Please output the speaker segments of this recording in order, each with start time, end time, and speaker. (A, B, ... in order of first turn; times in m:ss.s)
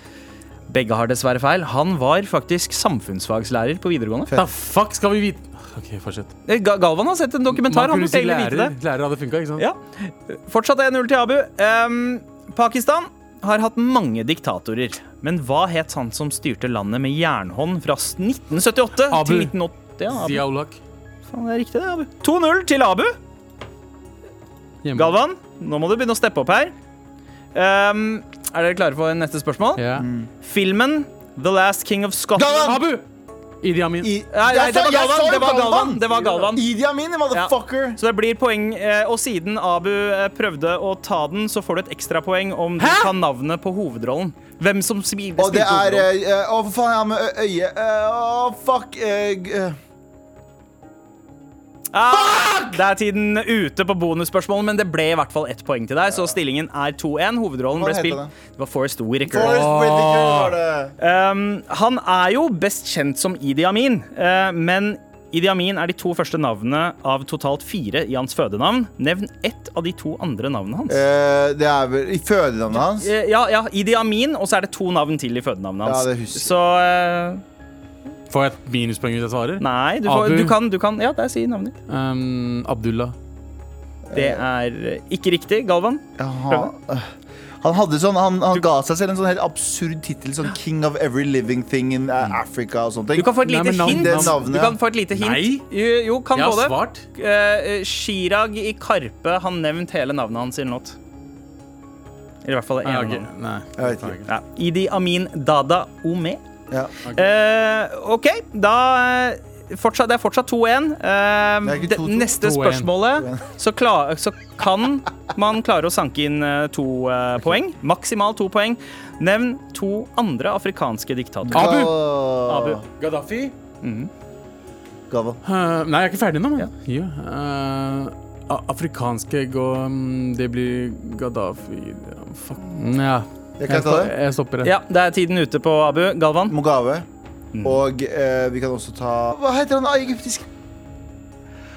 0:00.7-0:04.3 A
0:04.3-0:06.4 B
0:06.5-0:08.7 A
0:07.5-0:09.6 B
0:09.6-0:20.4 A
0:19.1-0:19.5 B
0:20.1-0:20.8 B
0:21.3-0:23.2 A
0:24.8-0:25.2 B
0:25.0-0:26.8 A
0:27.5-0:29.8 A
0:29.8-0:30.1 B
0:30.0-0:30.3 C
0:30.4-0:32.8 A
0:32.4-0:32.8 C
0:32.6-0:33.0 B
0:33.6-0:34.1 B
0:34.0-0:38.0 C
0:34.3-0:36.6 A
0:37.3-0:46.1 A
0:42.8-0:43.2 B
0:45.4-0:49.8 C
0:51.9-0:59.7 A
0:52.1-0:52.8 C
0:57.8-0:58.3 C
0:59.3-1:00.9 C
0:59.3-1:00.6 B
1:01.0-1:11.0 A
1:10.9-1:13.1 C
1:12.7-1:17.4 A
1:15.8-1:16.5 C
1:18.3-1:20.6 B
1:19.6-1:21.8 A
1:21.9-1:23.2 B
1:24.1-1:24.4 C
1:24.1-1:26.7 A
1:26.2-1:34.8 C
1:33.2-1:41.0 A
1:33.4-1:34.4 B
1:35.1-1:35.7 B
1:36.3-1:37.1 B
1:42.4-1:43.3 A
1:42.8-1:44.3 B
1:43.8-1:44.2 C
1:44.3-1:46.4 A
1:47.0-1:47.3 B
1:47.1-2:01.8 A
1:51.6-1:52.4 C
1:52.4-1:52.9 B
1:53.1-1:53.4 C
2:01.4-2:01.9 B
2:01.5-2:02.8 C
2:02.5-2:02.8 A
2:03.0-2:03.6 B
2:03.8-2:04.1 A
2:05.1-2:05.4 C
2:05.4-2:14.7 B
2:13.6-2:14.1 C
2:14.6-2:16.6 A
2:16.5-2:17.1 C
2:17.5-2:17.8 A
2:17.6-2:20.5 C